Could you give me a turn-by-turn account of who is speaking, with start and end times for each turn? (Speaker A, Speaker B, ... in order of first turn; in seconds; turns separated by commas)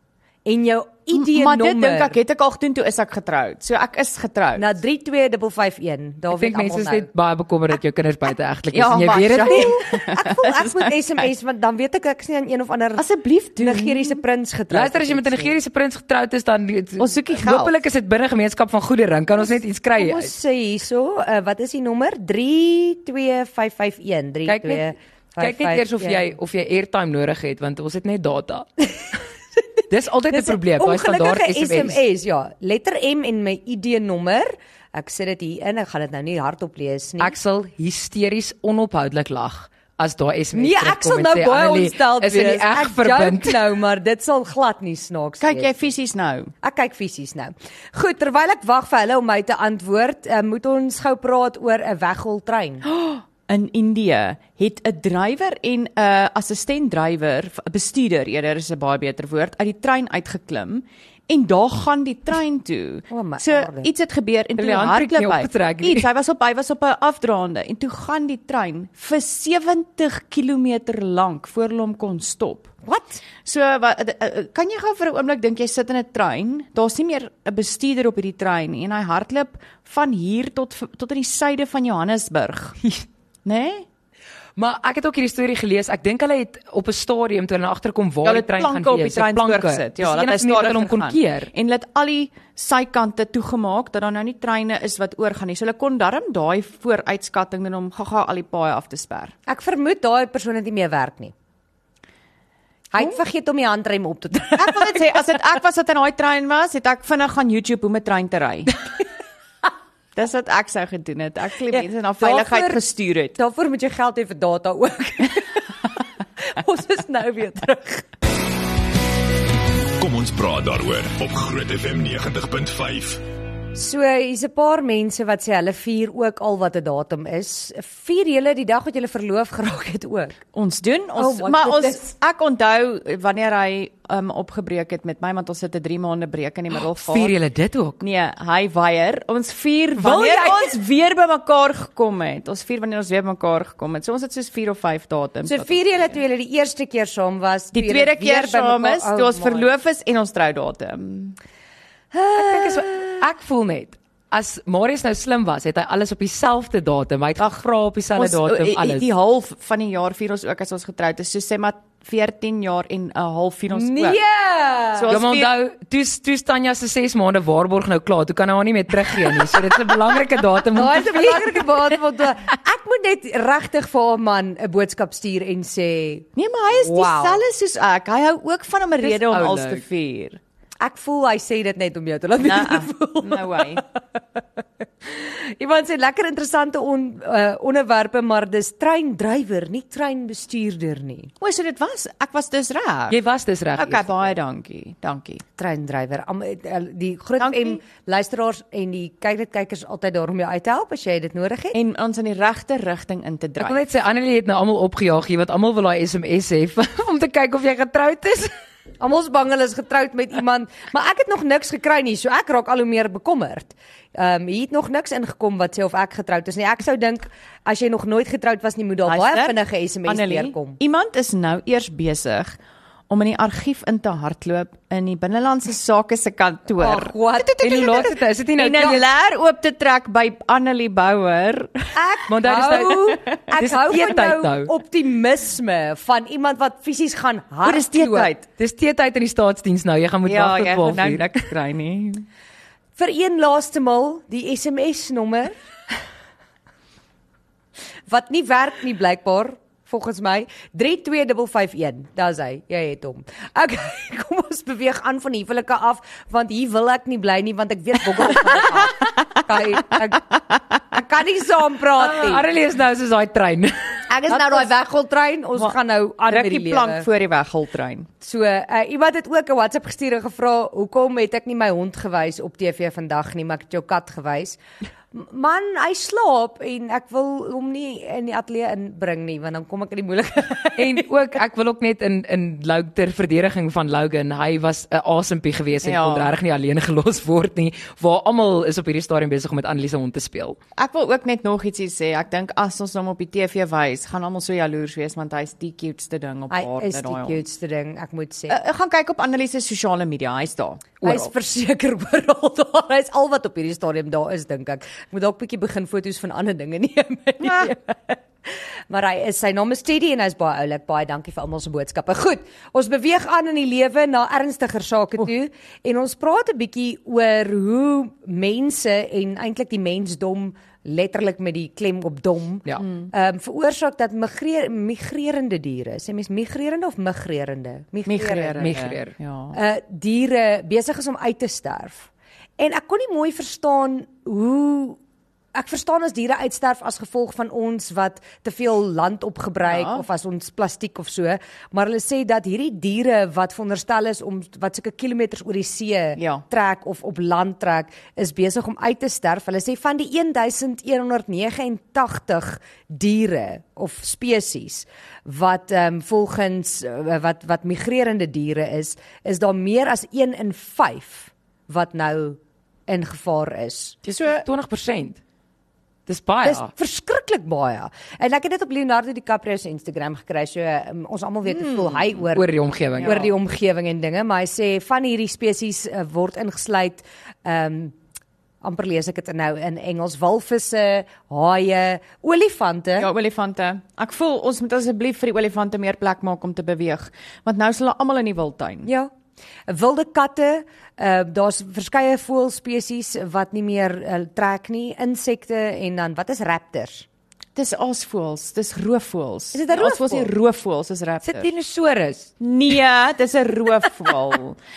Speaker A: 0.4-2.2, Speaker B: 1.1-4.7, Speaker A: 4.6-7.1, Speaker C: 6.3-9.8, Speaker B: 8.7-10.9, Speaker A: 9.4-13.0, Speaker B: 12.9-14.2, Speaker A: 13.6-15.5, Speaker C: 14.7-20.3, Speaker B: 17.0-17.7, Speaker A: 20.0-26.2, Speaker C: 24.4-28.7, Speaker C: 29.9-32.0, Speaker A: 30.3-37.3, Speaker C: 37.2-43.7, Speaker A: 40.5-45.8, Speaker B: 45.4-46.5, Speaker A: 46.6-52.9, Speaker B: 52.8-72.7, Speaker A: 63.1-63.9, Speaker C: 64.6-66.1, Speaker A: 72.8-73.2, Speaker B: 73.4-82.8, Speaker B: 83.4-83.8, Speaker C: 84.5-91.5, Speaker B: 88.2-99.3, Speaker A: 99.5-101.3, Speaker A: 102.9-105.2, Speaker B: 104.6-108.7, Speaker B: 110.2-113.3, Speaker A: 111.7-112.8, Speaker A: 113.3-115.6, Speaker A: 116.4-118.0, Speaker D: 120.0-123.2, Speaker A: 123.7-130.4, Speaker B: 130.5-137.3, Speaker A: 131.2-132.1, Speaker C: 137.0-138.0, Speaker B: 138.0-145.8, Speaker C: 140.0-140.7, Speaker A: 145.4-149.7, Speaker B: 147.7-151.4, Speaker A: 152.1-153.2, Speaker C: 152.3-159.1, Speaker B: 158.1-164.2, Speaker A: 163.7-165.1, Speaker B: 164.9-165.5, Speaker C: 165.1-171.7, Speaker A: 170.7-177.4, Speaker B: 176.3-180.4, Speaker C: 179.0-179.8, Speaker A: 180.8-183.8, Speaker B: 182.4-183.8, Speaker A: 185.1-191.3, Speaker B: 191.4-193.2, Speaker C: 193.1-194.3, Speaker B: 193.7-195.4, Speaker A: 195.6-201.8, Speaker B: 197.4-197.8, Speaker B: 201.7-203.8, Speaker C: 203.6-208.5, Speaker A: 209.0-220.8, Speaker B: 219.1-222.6, Speaker B: 223.1-231.9, Speaker A: 226.8-228.1, Speaker C: 227.6-229.0, Speaker A: 231.9-238.3, Speaker C: 232.3-234.7, Speaker B: 233.1-233.4, Speaker B: 237.6-238.5, Speaker C: 238.6-241.3, Speaker B: 240.2-242.2, Speaker A: 242.9-245.5, Speaker A: 248.1-260.3, Speaker A: 260.9-262.4, Speaker C: 262.0-263.7, Speaker A: 264.1-267.1, Speaker B: 264.2-264.7, Speaker B: 266.3-268.1, Speaker A: 268.2-274.6, Speaker A: 275.1-281.0, Speaker C: 280.8-290.6, Speaker B: 285.8-286.3, Speaker B: 290.8-297.4, Speaker A: 296.5-298.6, Speaker B: 298.5-300.9, Speaker C: 301.0-301.3, Speaker A: 301.0-328.8, Speaker B: 307.4-307.7, Speaker B: 328.1-329.6, Speaker C: 328.6-329.1, Speaker A: 329.5-335.0, Speaker A: 335.5-364.0, Speaker B: 339.6-340.0, Speaker B: 346.2-346.4, Speaker B: 364.1-364.4, Speaker C: 364.3-365.2, Speaker C: 366.1-366.7, Speaker A: 366.4-377.9, Speaker B: 371.5-372.0, Speaker C: 372.3-373.2, Speaker B: 373.0-373.3, Speaker A: 378.6-383.1, Speaker B: 383.0-388.9, Speaker A: 388.8-389.1, Speaker A: 389.7-397.1, Speaker B: 397.6-401.5, Speaker A: 399.5-400.3, Speaker C: 401.2-402.3, Speaker B: 402.4-404.6